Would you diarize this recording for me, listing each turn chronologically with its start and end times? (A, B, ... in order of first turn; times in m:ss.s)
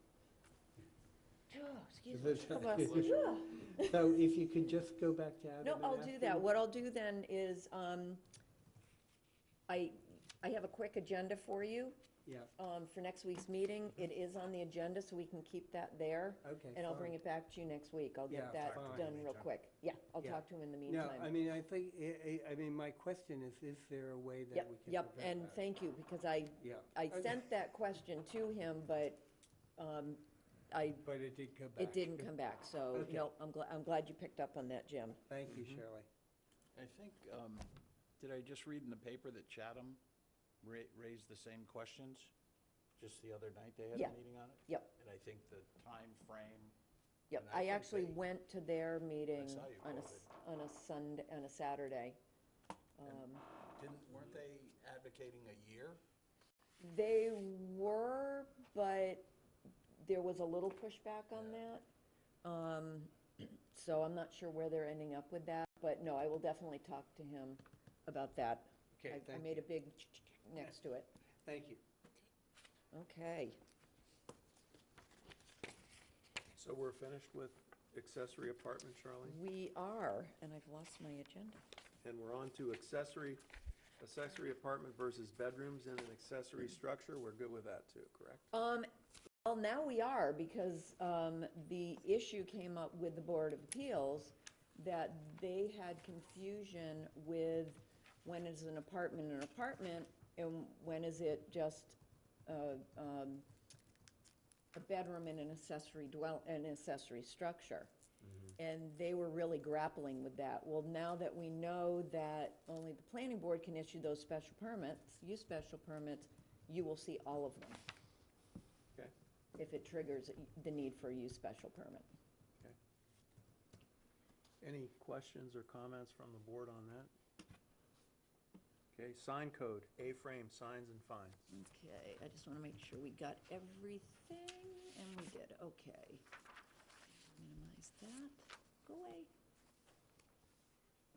0:01.5-0:03.9 A
0:02.1-0:03.2 B
0:03.7-0:06.5 B
0:05.6-0:08.2 A
0:09.7-0:12.0 A
0:12.2-0:12.5 B
0:12.6-0:21.3 A
0:16.4-0:17.2 B
0:18.3-0:19.1 B
0:18.5-0:19.5 C
0:20.2-0:25.6 B
0:24.5-0:31.0 A
0:26.6-0:27.4 B
0:31.0-0:32.3 B
0:31.8-0:35.2 A
0:32.9-0:33.3 B
0:35.3-0:36.1 B
0:35.5-0:35.8 D
0:36.7-0:40.0 C
0:40.6-0:42.3 C
0:43.0-0:46.7 C
0:43.9-0:44.9 A
0:47.3-0:52.2 A
0:47.3-0:48.2 C
0:49.4-0:50.3 C
0:53.0-0:53.4 A
0:53.0-0:56.0 C
0:56.8-0:59.3 A
1:00.0-1:01.8 A
1:01.4-1:01.6 C
1:02.4-1:11.1 A
1:09.0-1:09.7 B
1:11.4-1:11.8 B
1:12.9-1:13.6 A
1:16.6-1:19.4 D
1:19.2-1:21.6 A
1:22.0-1:23.4 D
1:24.0-1:28.4 D
1:28.5-1:28.9 A
1:29.4-1:43.4 A
1:44.7-1:47.9 A
1:48.6-1:57.8 A
1:59.6-2:02.1 A
2:04.6-2:07.1 D
2:08.9-2:11.4 D
2:11.5-2:16.2 A
2:17.3-2:19.3 A